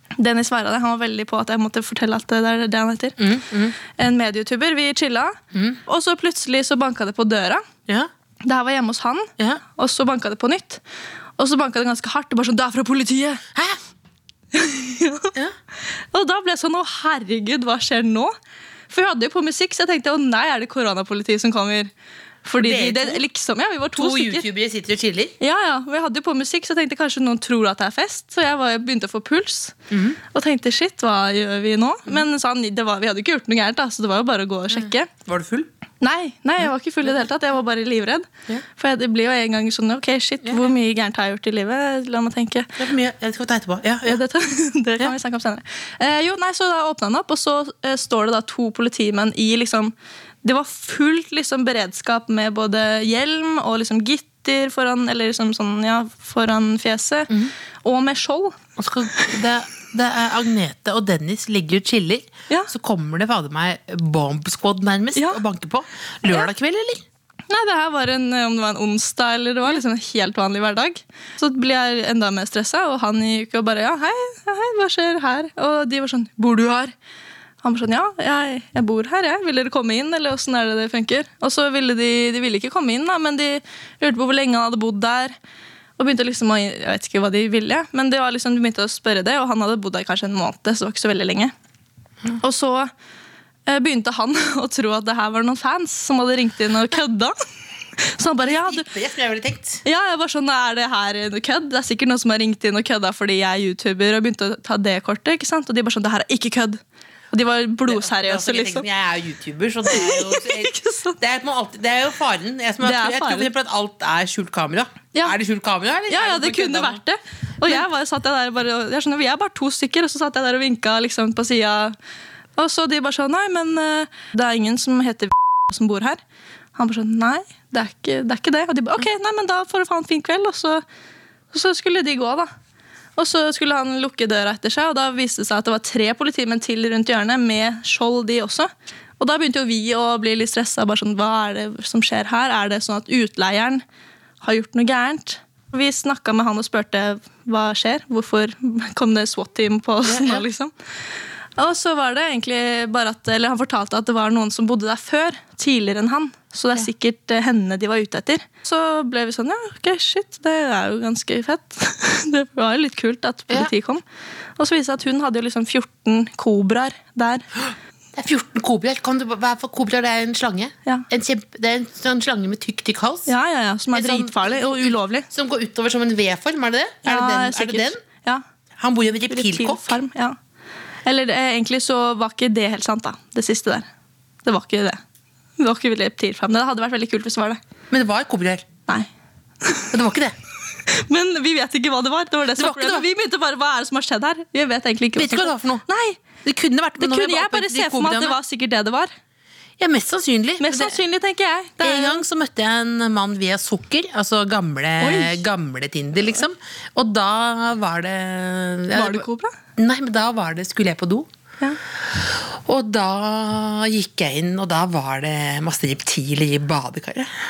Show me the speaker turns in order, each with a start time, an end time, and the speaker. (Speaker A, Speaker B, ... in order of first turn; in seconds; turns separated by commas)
Speaker A: 0.2-3.2, Speaker B: 3.2-3.8, Speaker A: 3.8-7.6, Speaker B: 5.5-5.8, Speaker A: 8.4-10.8, Speaker A: 11.4-13.4, Speaker A: 14.5-15.3, Speaker A: 15.9-18.3, Speaker A: 18.9-21.9, Speaker A: 22.4-24.4, Speaker B: 22.6-23.2, Speaker B: 23.9-25.4, Speaker A: 25.4-29.8, Speaker B: 29.9-30.2, Speaker A: 30.3-35.1, Speaker B: 34.7-35.7, Speaker A: 36.0-42.8, Speaker B: 42.8-44.2, Speaker A: 44.0-58.6, Speaker B: 58.8-67.0, Speaker A: 65.2-65.4, Speaker A: 67.5-76.9, Speaker A: 77.6-85.3, Speaker A: 86.0-91.5, Speaker A: 92.4-92.9, Speaker A: 93.7-97.3, Speaker A: 98.0-98.9, Speaker B: 98.7-99.8, Speaker A: 99.8-106.8, Speaker A: 107.3-108.8, Speaker B: 107.8-117.0, Speaker A: 109.9-111.2, Speaker A: 112.8-113.5, Speaker A: 116.1-122.0, Speaker A: 122.5-126.2, Speaker A: 126.7-130.8, Speaker A: 131.5-132.5, Speaker A: 133.2-143.8, Speaker A: 144.4-150.7, Speaker B: 150.0-150.4, Speaker A: 151.6-164.0, Speaker A: 164.6-167.4, Speaker B: 168.1-173.3, Speaker A: 173.3-175.3, Speaker B: 173.9-178.0, Speaker A: 177.1-178.4, Speaker B: 178.8-180.0, Speaker A: 179.3-180.4, Speaker A: 181.0-183.9, Speaker A: 184.4-185.0, Speaker A: 185.6-187.6, Speaker B: 187.9-188.6, Speaker A: 189.6-189.9, Speaker B: 189.9-190.3, Speaker A: 190.9-196.2, Speaker B: 192.6-193.0, Speaker B: 195.2-195.8, Speaker B: 196.4-198.4, Speaker A: 197.0-199.1, Speaker B: 199.8-201.0, Speaker A: 200.6-202.2, Speaker B: 201.8-209.2, Speaker A: 205.0-205.4, Speaker A: 208.9-209.5, Speaker B: 209.8-211.3, Speaker B: 212.1-217.3